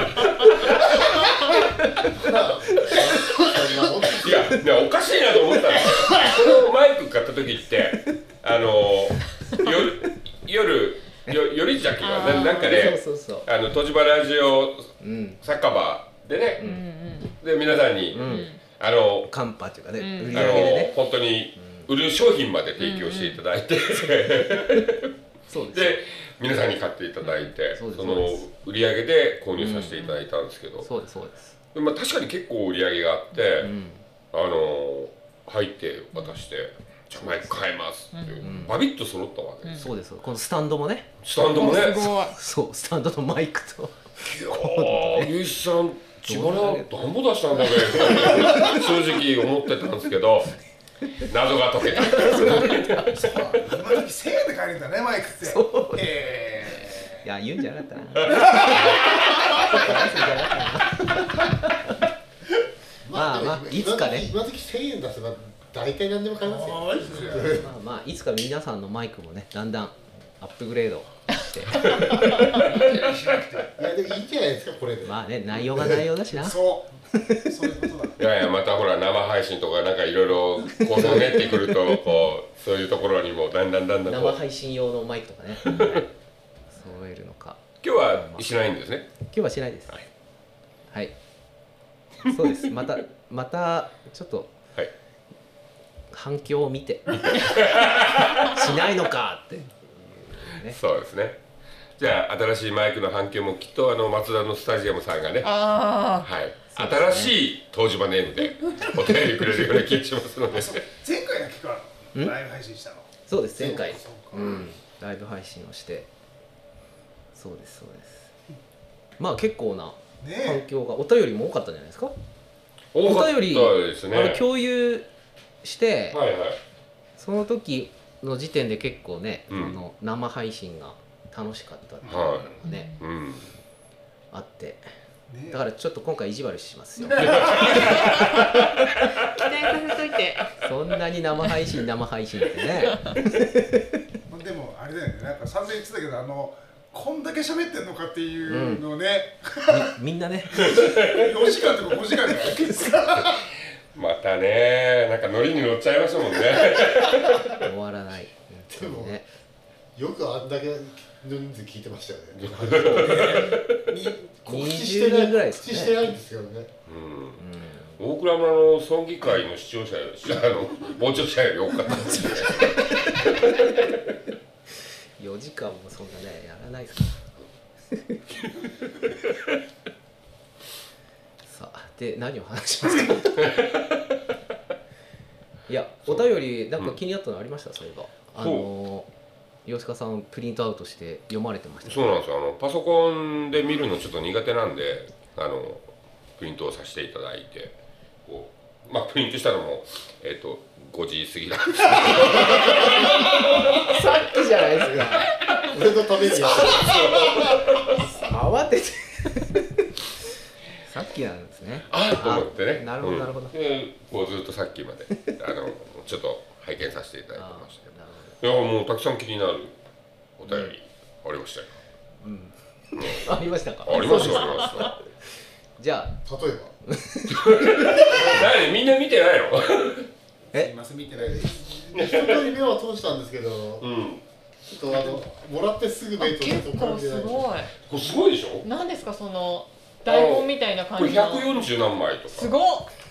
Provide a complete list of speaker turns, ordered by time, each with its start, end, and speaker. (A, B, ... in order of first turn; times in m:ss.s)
0:00.2-0:03.5 A
0:02.2-0:04.6 B
0:04.1-0:16.6 C
0:12.0-0:12.8 D
0:12.6-0:13.5 A
0:15.0-0:15.4 A
0:16.6-0:17.4 D
0:17.3-0:19.3 C
0:18.1-0:18.5 A
0:18.2-0:18.6 D
0:19.3-0:21.0 A
0:20.0-0:20.7 D
0:20.3-0:25.1 C
0:21.6-0:21.9 A
0:22.8-0:23.4 D
0:25.5-0:26.0 A
0:25.7-0:30.9 C
0:27.2-0:27.5 D
0:27.7-0:28.4 A
0:29.6-0:30.1 A
0:30.8-0:31.5 A
0:31.7-0:33.7 C
0:33.6-0:34.0 A
0:34.3-0:39.9 C
0:36.1-0:36.4 D
0:37.1-0:37.6 A
0:38.1-0:38.7 D
0:38.4-0:38.8 A
0:39.6-0:39.9 D
0:39.7-0:41.1 A
0:41.2-0:42.2 C
0:41.5-0:42.4 D
0:42.3-0:45.3 A
0:44.2-0:50.5 C
0:46.3-0:46.9 A
0:47.8-0:48.1 A
0:51.2-0:53.1 C
0:51.9-0:53.2 A
0:52.3-0:57.2 E
0:55.4-0:56.0 A
0:57.2-1:02.0 A
0:58.3-0:58.9 C
0:58.5-0:59.7 E
1:03.0-1:07.7 B
1:03.1-1:04.3 A
1:06.4-1:07.6 E
1:07.5-1:12.3 A
1:11.8-1:13.8 E
1:12.2-1:12.7 D
1:13.8-1:16.0 B
1:15.0-1:16.6 A
1:16.4-1:18.2 E
1:17.1-1:17.5 A
1:18.2-1:24.4 C
1:20.8-1:21.8 A
1:24.1-1:26.1 A
1:25.6-1:26.0 C
1:26.7-1:28.4 A
1:27.8-1:29.2 C
1:29.3-1:30.0 A
1:32.3-1:34.6 A
1:36.1-1:37.5 A
1:37.1-1:38.6 C
1:38.4-1:40.8 A
1:40.6-1:41.4 C
1:42.0-1:45.6 C
1:45.4-1:46.3 D
1:46.2-1:50.8 C
1:46.7-1:47.4 A
1:50.5-1:53.1 E
1:53.2-1:56.1 A
1:53.6-1:54.0 B
1:53.7-1:54.6 E
1:57.3-1:58.3 A
1:59.2-2:02.1 A
2:00.2-2:00.6 E
2:02.9-2:04.4 C
2:03.0-2:05.1 A
2:05.6-2:06.2 A
2:06.1-2:06.6 C
2:07.2-2:12.9 A
2:09.5-2:09.8 C
2:12.0-2:12.5 E
2:12.1-2:13.5 C
2:12.6-2:13.1 D
2:14.3-2:14.8 A
2:15.3-2:15.6 E
2:15.5-2:18.7 A
2:17.0-2:18.4 E
2:17.2-2:18.4 C
2:17.9-2:18.1 D
2:19.2-2:20.5 D
2:20.6-2:23.8 A
2:24.3-2:29.9 E
2:28.5-2:28.8 A
2:29.7-2:30.6 A
2:30.5-2:33.4 E
2:30.6-2:31.2 C
2:33.9-2:37.6 C
2:37.5-2:39.2 A
2:38.7-2:39.2 B
2:40.0-2:43.3 B
2:42.3-2:43.9 C
2:42.9-2:44.4 E
2:44.4-2:46.7 B
2:44.5-2:46.0 A
2:46.9-2:47.4 C
2:47.4-2:48.0 A
2:48.0-2:52.8 C
2:51.9-2:53.6 A
2:55.2-2:58.2 A
3:01.4-3:03.6 A
3:03.5-3:03.8 C
3:05.7-3:09.1 A
3:08.4-3:08.7 C
3:09.6-3:12.1 A
3:11.8-3:17.7 C
3:18.2-3:23.8 C
3:22.4-3:25.3 A
3:25.6-3:27.3 B
3:26.5-3:28.0 C
3:26.5-3:27.3 A
3:27.9-3:30.2 A
3:30.8-3:33.6 A
3:31.9-3:39.8 C
3:37.3-3:38.4 A
3:40.4-3:41.7 C
3:40.5-3:40.7 A
3:42.2-3:45.0 A
3:42.9-3:44.9 C
3:45.8-3:46.2 A
3:46.2-3:46.7 B
3:46.9-3:48.0 A
3:47.4-3:50.1 C
3:48.1-3:48.4 B
3:50.5-3:52.1 E
3:51.1-3:53.9 B
3:51.9-3:52.5 C
3:53.8-3:54.2 C
3:54.7-3:57.7 B
3:54.9-3:55.2 E
3:56.2-3:57.7 D
3:57.8-3:58.6 C
3:58.6-4:01.7 D
4:00.0-4:02.6 C
4:02.3-4:02.9 D